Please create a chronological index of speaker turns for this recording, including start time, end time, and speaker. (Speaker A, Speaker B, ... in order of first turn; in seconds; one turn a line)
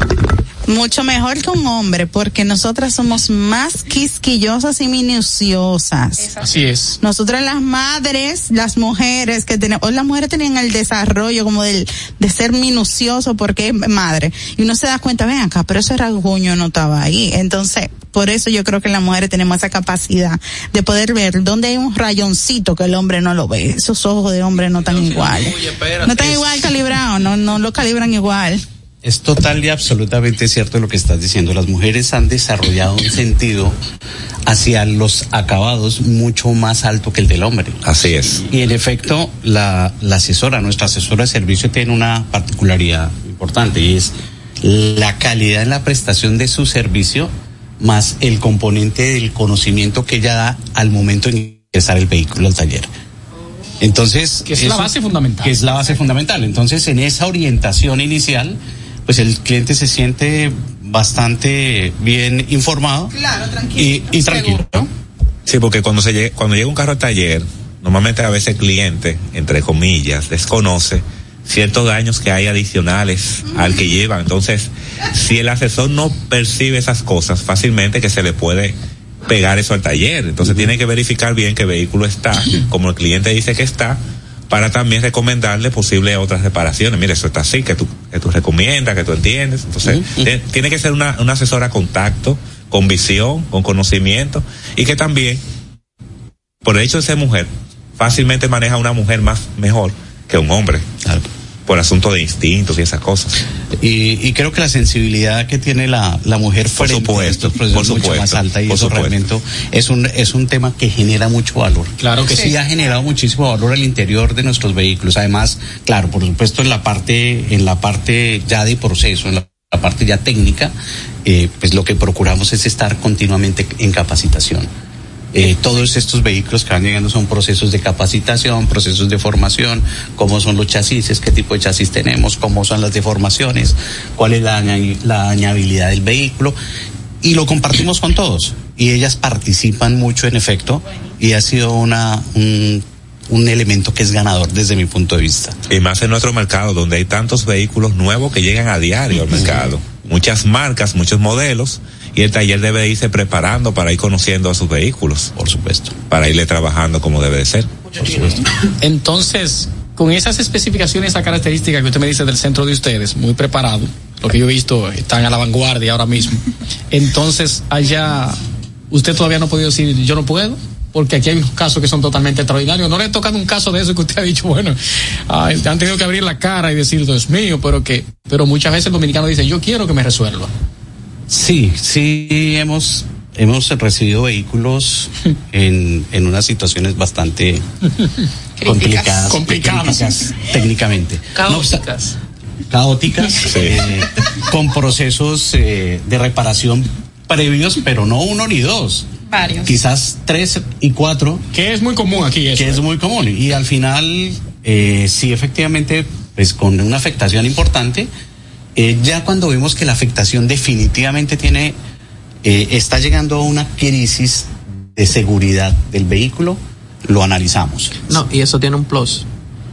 Speaker A: 0.7-6.3
Speaker B: 6.2-6.5
Speaker C: 6.4-7.0
Speaker A: 7.0-28.6
Speaker D: 24.8-26.6
Speaker E: 29.0-33.8
Speaker E: 34.5-52.9
Speaker F: 37.9-38.5
Speaker E: 53.8-63.1
Speaker C: 54.5-55.6
Speaker A: 63.1-64.0
Speaker E: 63.8-64.9
Speaker B: 64.3-64.6
Speaker F: 65.5-78.8
Speaker F: 79.3-84.0
Speaker E: 80.4-80.7
Speaker F: 84.5-95.4
Speaker E: 89.8-90.3
Speaker F: 96.6-100.8
Speaker F: 101.7-103.4
Speaker E: 103.8-120.7
Speaker F: 106.7-109.2
Speaker C: 112.0-112.5
Speaker B: 112.3-112.5
Speaker E: 121.2-124.7
Speaker E: 125.3-136.6
Speaker E: 137.2-145.6
Speaker F: 145.7-155.3
Speaker E: 149.3-149.7
Speaker E: 155.4-156.0
Speaker F: 156.1-157.7
Speaker E: 158.0-158.4
Speaker C: 158.8-168.4
Speaker C: 168.9-174.8
Speaker C: 175.3-180.5
Speaker E: 181.3-187.6
Speaker B: 188.6-189.4
Speaker E: 188.6-191.8
Speaker C: 189.3-190.3
Speaker D: 191.3-192.2
Speaker E: 192.7-199.1
Speaker F: 193.4-193.8
Speaker B: 199.3-199.8
Speaker E: 199.6-201.4
Speaker C: 201.5-202.8
Speaker E: 202.5-208.1
Speaker E: 208.8-211.8
Speaker E: 212.4-218.1
Speaker D: 218.1-219.3